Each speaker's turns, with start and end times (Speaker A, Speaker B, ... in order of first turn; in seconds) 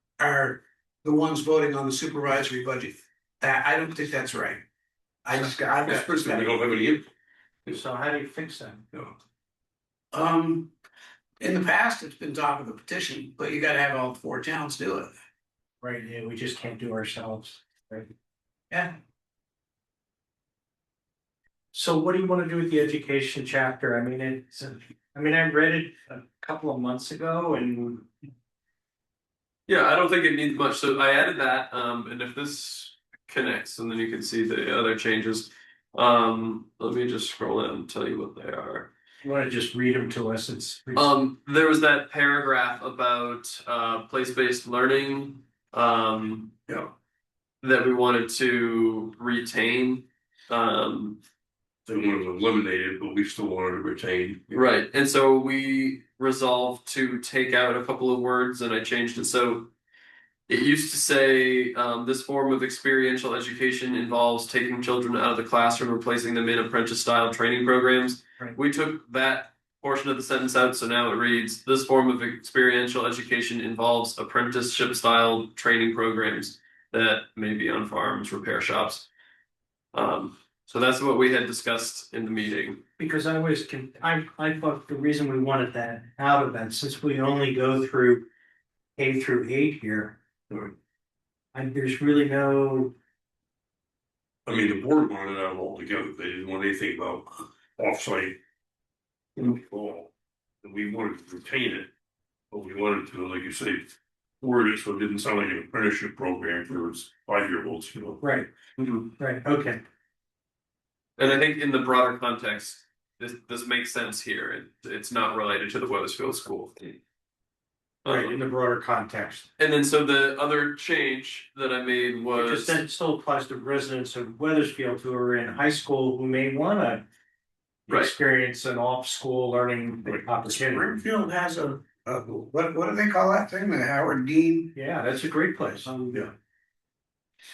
Speaker A: 0.2-4.6, 5.2-6.5, 10.1-10.7, 11.4-15.1, 18.7-19.0, 130.4-134.8, 135.8-136.3
Speaker B: 5.8-7.1, 51.9-54.6, 94.5-98.4, 99.4-100.1, 100.6-101.9, 102.5-108.2
Speaker C: 6.1-6.5, 7.7-8.8, 15.8-18.1, 21.7-28.1, 39.2-41.1, 83.0-88.3, 89.0-90.2, 91.5-93.0, 108.2-108.5, 109.2-109.8, 118.1-119.5, 122.3-127.0, 127.9-131.0, 134.8-135.9
Speaker D: 29.7-38.9, 40.9-46.5, 47.6-51.2, 54.5-59.7, 60.5-79.1, 79.9-82.8, 111.2-116.8, 118.0-118.3, 119.6-122.8, 127.9-128.1